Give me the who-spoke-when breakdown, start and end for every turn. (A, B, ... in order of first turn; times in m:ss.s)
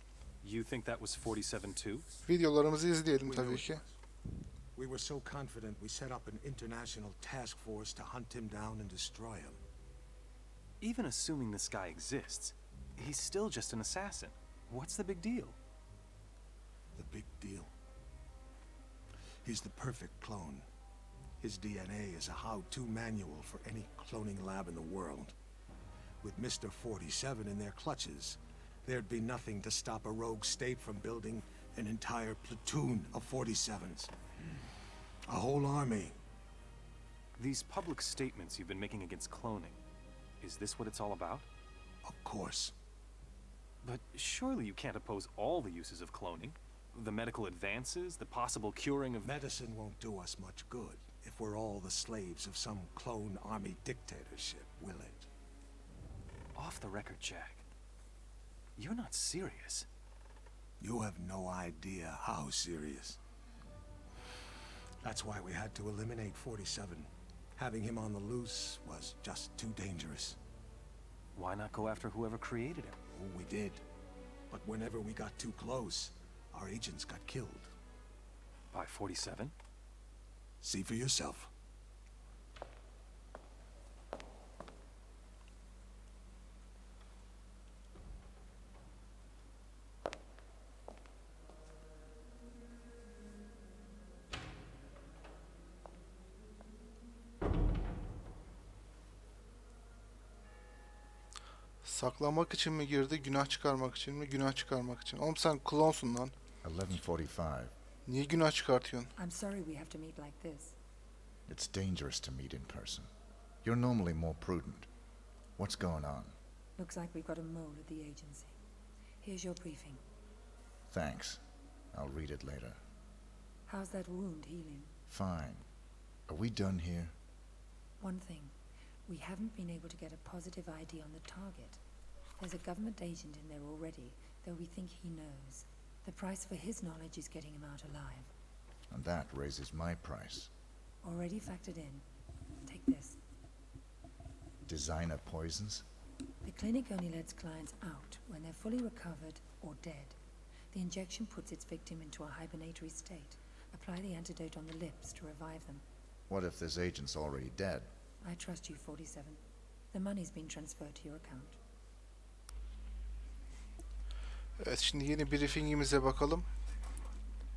0:00.4-0:02.1 A
0:02.2-0:03.8 B
0:03.2-0:04.0 C
0:04.8-0:09.6 C
0:10.8-0:15.6 A
0:17.0-0:17.7 C
0:19.4-0:20.6 C
0:21.4-0:25.3 C
0:26.2-0:34.1 C
0:35.3-0:36.2 C
0:37.4-0:39.8 A
0:40.4-0:41.5 A
0:42.0-0:42.7 C
0:43.8-0:49.3 A
0:49.2-0:55.3 C
0:56.6-0:57.6 A
0:58.8-0:59.9 A
1:00.8-1:03.2 C
1:05.0-1:10.4 C
1:11.4-1:13.0 A
1:13.1-1:13.8 C
1:14.5-1:17.7 C
1:18.7-1:19.5 A
1:20.6-1:21.5 C
1:41.8-1:46.4 B
1:46.6-1:47.7 D
1:48.1-1:49.1 B
1:49.2-1:50.8 E
1:51.5-1:53.1 D
1:53.6-1:54.9 D
1:55.6-1:56.3 D
1:56.8-1:58.6 E
1:59.2-2:00.0 E
2:00.9-2:01.4 D
2:01.9-2:02.8 D
2:03.7-2:04.9 E
2:05.1-2:05.7 D
2:06.3-2:07.1 D
2:08.0-2:08.6 E
2:09.1-2:11.8 E
2:12.4-2:18.3 E
2:18.9-2:20.5 D
2:21.0-2:22.0 E
2:22.7-2:23.2 E
2:24.6-2:25.8 D
2:26.4-2:30.2 E
2:30.7-2:35.8 E
2:36.3-2:37.9 D
2:38.2-2:41.6 E
2:44.6-2:46.5 B